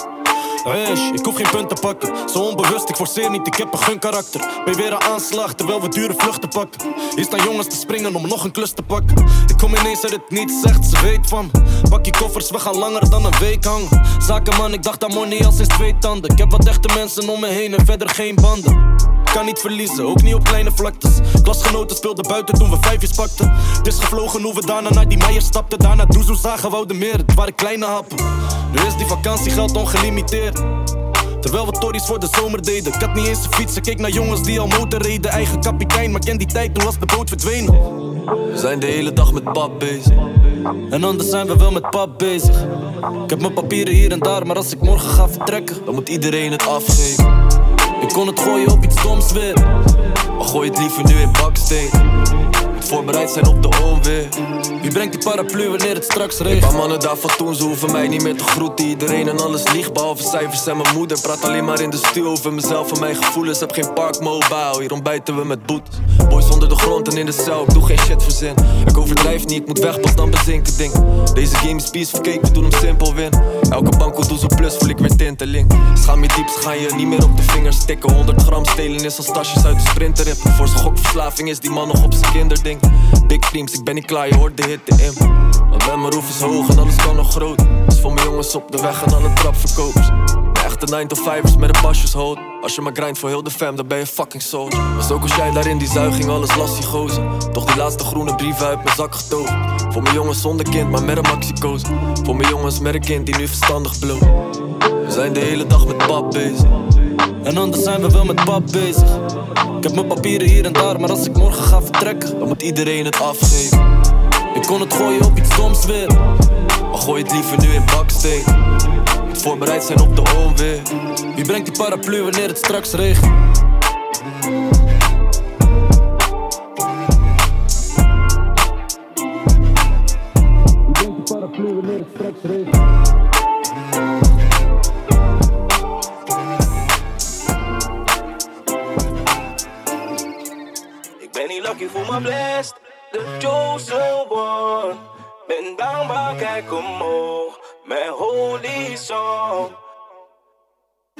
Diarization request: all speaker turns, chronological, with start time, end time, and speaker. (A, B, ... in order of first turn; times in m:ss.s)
0:00.6-0:18.8 A
0:19.3-0:28.2 A
0:28.7-0:30.6 A
0:31.4-0:37.7 A
0:38.5-0:40.1 B
0:40.9-0:42.6 A
0:43.3-0:45.8 A
0:45.8-0:47.2 B
0:48.0-0:49.6 A
0:50.4-0:52.0 B
0:52.7-0:54.3 B
0:54.8-0:56.7 A
0:56.4-1:44.3 B
1:45.0-1:46.7 B
1:47.4-1:49.1 A
1:49.8-1:52.3 A
1:52.4-1:53.8 B
1:54.5-1:56.1 A
1:56.9-1:58.5 B
1:59.3-2:00.9 B
2:01.3-2:03.3 A
2:21.2-2:25.0 C
2:25.5-2:29.7 C